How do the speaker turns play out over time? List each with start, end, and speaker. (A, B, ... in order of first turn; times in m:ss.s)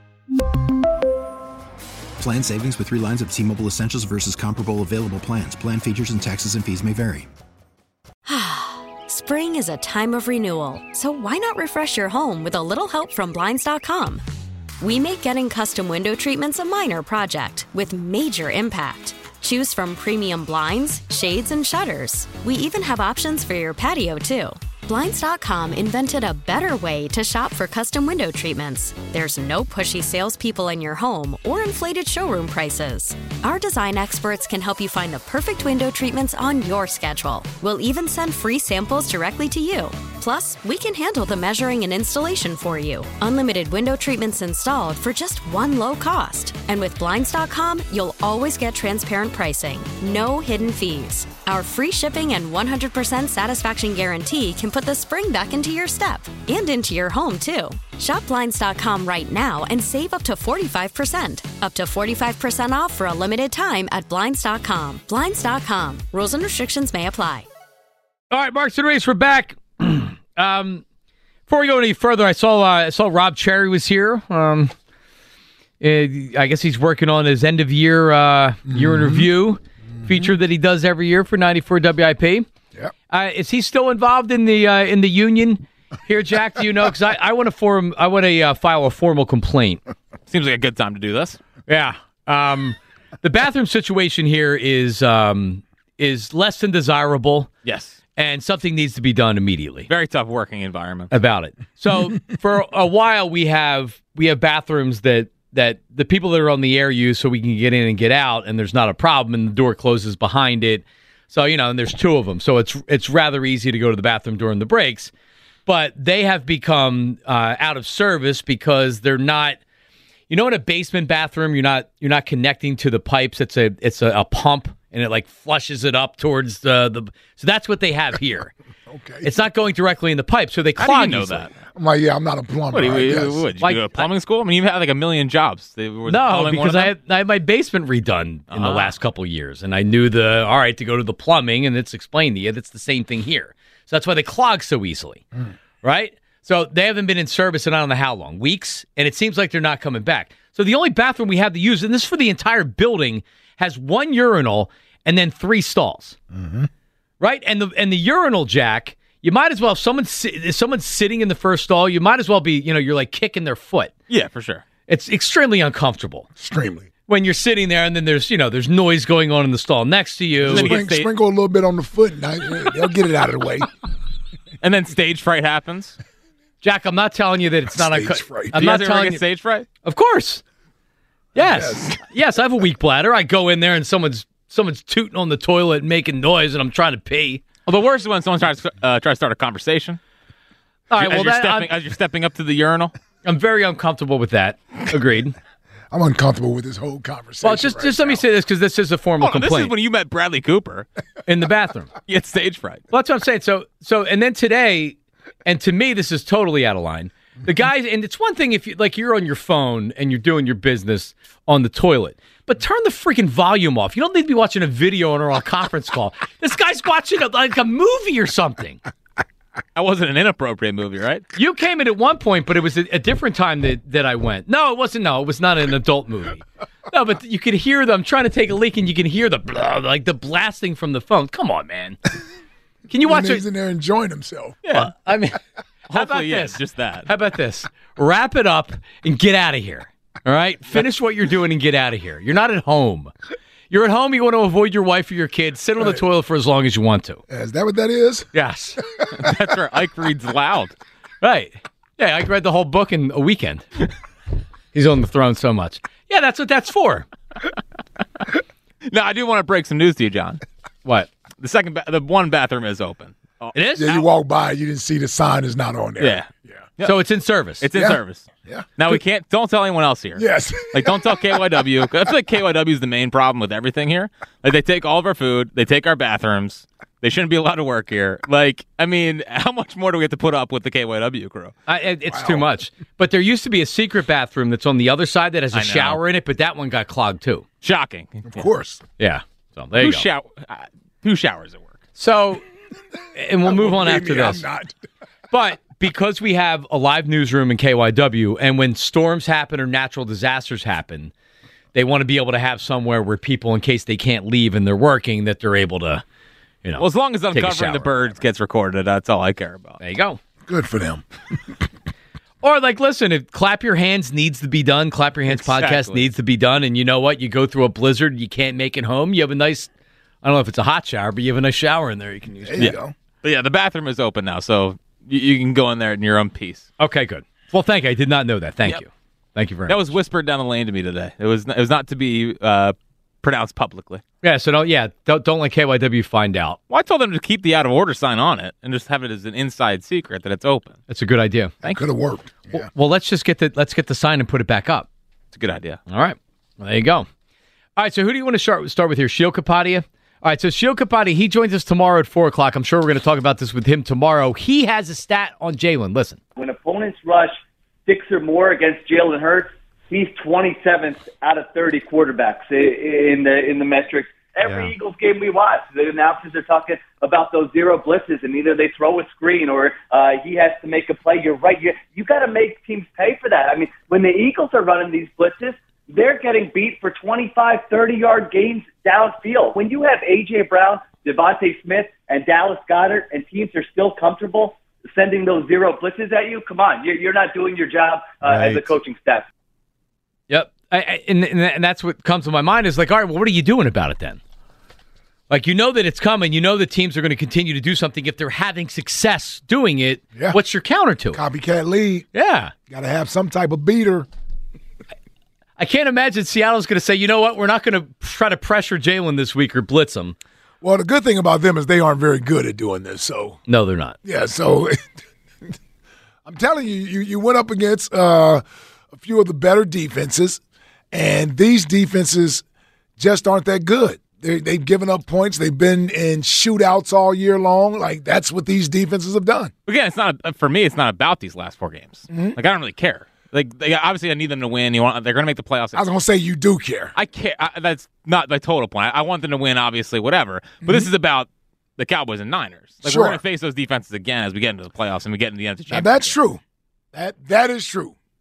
0:02.2-0:07.3 A
0:08.3-0:14.2 B
0:14.8-1:07.5 B
1:08.3-1:10.8 C
1:11.5-1:14.7 C
1:15.8-1:22.5 C
1:18.7-1:19.3 D
1:23.1-1:29.8 C
1:30.3-1:31.4 E
1:31.7-1:37.5 C
1:37.6-1:38.0 E
1:38.2-1:39.9 C
1:39.9-1:41.1 E
1:41.1-1:55.1 C
1:55.7-1:59.6 C
2:00.3-2:08.5 C
2:08.9-2:09.3 D
2:09.2-2:11.5 C
2:10.8-2:11.6 E
2:11.8-2:13.4 D
2:12.7-2:16.9 E
2:13.6-2:14.1 C
2:16.1-2:25.2 C
2:18.5-2:18.9 E
2:25.8-2:36.2 C
2:36.3-2:36.7 D
2:37.2-2:43.9 C
2:44.1-2:44.6 E
2:44.9-2:46.3 C
2:46.4-2:46.9 D
2:47.1-2:50.7 C
2:50.4-2:53.7 D
2:50.5-2:51.1 E
2:54.6-2:56.0 E
2:56.6-2:59.2 C
2:57.7-2:58.6 D
2:58.5-2:59.7 E
2:59.8-3:00.4 C
3:01.4-3:02.0 D
3:01.4-3:07.6 C
3:07.7-3:10.0 E
3:10.9-3:11.7 C
3:11.0-3:12.9 E
3:13.2-3:15.4 C
3:15.9-3:18.2 D
3:17.4-3:19.7 C
3:19.2-3:20.9 E
3:21.3-3:21.9 C
3:22.1-3:22.8 E
3:22.9-3:38.8 C
3:39.8-3:41.3 E
3:41.4-3:52.0 C
3:52.9-3:53.4 C
3:53.0-3:54.6 D
3:54.6-3:54.9 E
3:54.7-3:55.4 C
3:55.9-3:57.1 E
3:55.9-4:03.1 C
4:03.7-4:07.2 C
4:07.3-4:08.3 D
4:08.3-4:08.8 C
4:09.1-4:10.7 E
4:11.2-4:13.7 C
4:14.7-4:17.1 C
4:18.8-4:20.4 E
4:20.8-4:21.1 C
4:21.4-4:24.0 E
4:23.6-4:23.9 C
4:23.8-4:26.6 D
4:26.0-4:27.1 E
4:26.8-4:27.6 C
4:27.6-4:41.6 E
4:27.8-4:29.0 D
4:30.2-4:31.4 D
4:41.7-4:47.4 C
4:42.1-4:42.4 D
4:45.5-4:46.0 E
4:47.6-4:48.5 E
4:48.3-4:48.8 D
4:49.0-4:50.0 C
4:49.8-4:51.8 E
4:52.0-4:52.4 C
4:53.2-4:54.4 C
4:53.4-4:54.8 D
4:55.3-5:01.1 C
5:01.7-5:06.0 C
5:06.6-5:08.1 C
5:06.8-5:09.8 E
5:09.8-5:10.2 C
5:10.5-5:11.0 D
5:12.4-5:19.7 C
5:15.3-5:16.1 E
5:20.2-5:22.7 C
5:22.4-5:22.9 D
5:22.6-5:26.7 E
5:26.8-5:29.8 C
5:29.7-5:34.0 E
5:34.2-5:36.6 C
5:36.7-5:40.8 E
5:40.9-5:41.5 C
5:41.6-5:42.7 D
5:42.5-5:44.9 C
5:45.3-5:45.8 E
5:45.9-5:47.1 C
5:47.8-5:56.2 C
5:56.4-6:29.3 F
6:04.4-6:04.7 C
6:28.2-6:28.7 C
6:30.3-6:34.2 C
6:35.3-6:41.2 C
6:41.1-6:42.1 D
6:42.1-6:42.5 C
6:42.7-6:44.1 D
6:45.6-6:50.2 C
6:50.6-6:53.4 D
6:53.5-6:54.0 C
6:54.0-6:54.8 D
6:56.2-7:00.4 D
7:00.9-7:02.4 D
7:03.0-7:09.5 D
7:09.7-7:15.8 E
7:12.1-7:12.4 D
7:15.7-7:16.9 D
7:17.0-7:26.1 E
7:22.8-7:23.2 D
7:25.7-7:26.4 D
7:26.9-7:28.0 D